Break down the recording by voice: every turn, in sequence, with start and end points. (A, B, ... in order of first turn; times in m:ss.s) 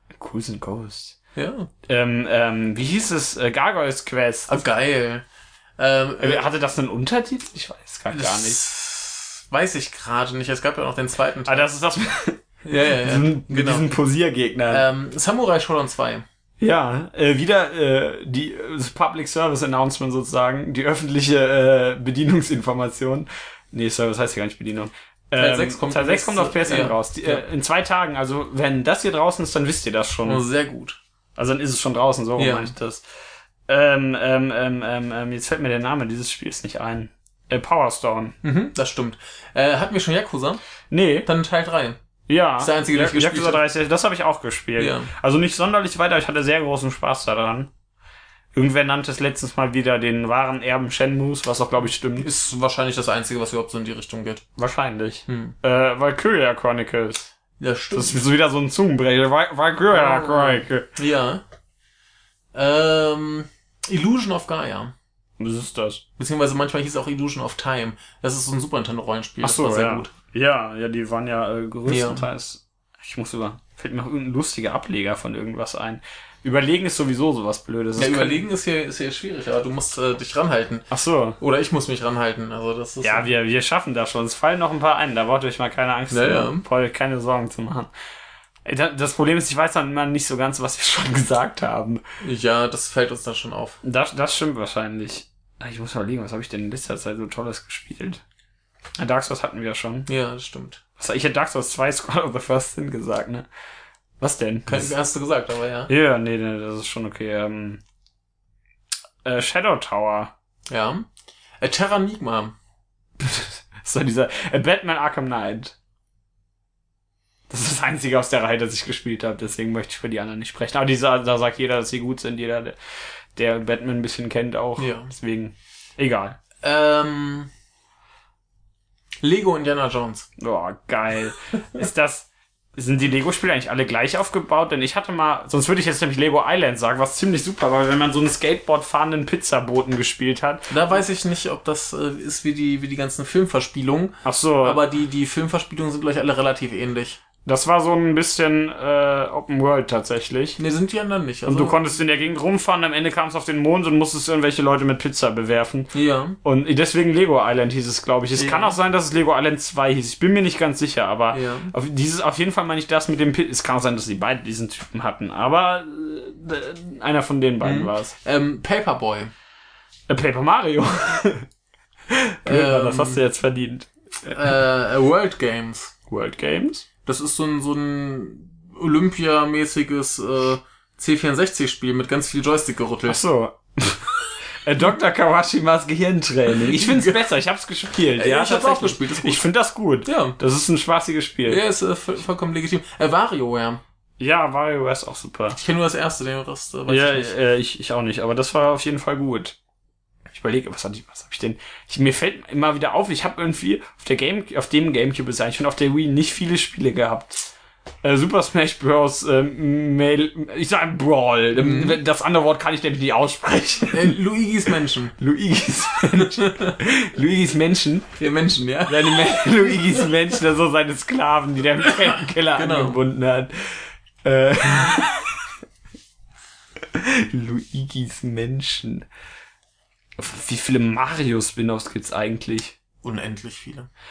0:00.1-0:01.2 A
0:01.4-0:01.7 B
0:01.9-0:04.5 A
0:04.5-0:05.2 B
0:05.8-0:06.5 B
0:06.2-0:08.6 A
0:08.1-0:11.7 B
0:11.5-0:14.9 A
0:12.6-0:13.9 B
0:14.7-0:16.2 B
0:16.6-0:30.4 A
0:25.4-0:27.4 B
0:30.2-0:31.0 B
0:31.4-0:33.0 A
0:32.4-0:32.7 B
0:33.7-0:38.4 A
0:38.4-0:40.6 B
0:40.9-0:41.3 A
0:41.3-0:42.0 B
0:42.3-0:47.7 A
0:42.6-0:43.6 B
0:44.8-0:45.1 B
0:48.6-0:52.3 A
0:52.2-0:54.4 B
0:54.6-0:57.3 A
0:55.3-0:55.6 B
0:57.6-0:58.2 B
0:57.9-1:00.9 A
0:59.9-1:01.4 B
1:02.5-1:04.9 B
1:05.4-1:06.0 A
1:06.2-1:10.1 B
1:09.4-1:18.4 A
1:11.9-1:12.3 B
1:18.0-1:20.9 B
1:20.9-1:21.4 A
1:21.4-1:23.3 B
1:23.0-1:27.9 A
1:26.1-1:26.6 B
1:28.6-1:32.0 A
1:32.2-1:33.8 B
1:33.8-1:38.2 A
1:39.0-1:40.1 A
1:40.1-1:40.8 B
1:41.0-1:43.5 A
1:44.2-1:44.9 A
1:44.7-1:45.9 B
1:45.9-1:47.8 A
1:49.2-1:50.3 A
1:50.7-1:51.1 B
1:51.6-1:52.6 B
1:53.2-1:55.8 A
1:57.5-2:02.8 A
2:03.4-2:06.4 A
2:04.8-2:05.1 B
2:06.6-2:07.5 B
2:09.2-2:10.3 B
2:10.4-2:21.0 A
2:20.7-2:27.2 B
2:24.2-2:24.8 A
2:27.4-2:30.6 A
2:30.6-2:31.8 B
2:31.5-2:35.9 A
2:35.9-2:36.4 B
2:36.4-2:48.1 A
2:38.4-2:38.8 B
2:41.3-2:41.7 B
2:47.6-2:49.3 B
2:50.1-2:51.5 A
2:52.1-2:53.9 A
2:52.5-2:53.2 B
2:54.3-2:55.9 B
2:56.1-2:56.9 A
2:57.0-3:03.2 B
3:03.1-3:11.6 A
3:06.6-3:07.3 B
3:08.2-3:09.4 B
3:10.1-3:10.4 B
3:11.5-3:13.8 B
3:14.2-3:15.6 A
3:15.6-3:17.3 B
3:16.9-3:19.6 A
3:20.3-3:27.5 A
3:28.0-3:34.2 A
3:31.6-3:32.0 B
3:33.9-3:35.2 B
3:35.2-3:38.1 A
3:36.1-3:36.8 B
3:38.2-3:40.1 B
3:38.9-3:45.4 A
3:41.8-3:43.0 B
3:46.9-3:49.1 A
3:50.2-3:52.8 A
3:53.0-3:53.9 B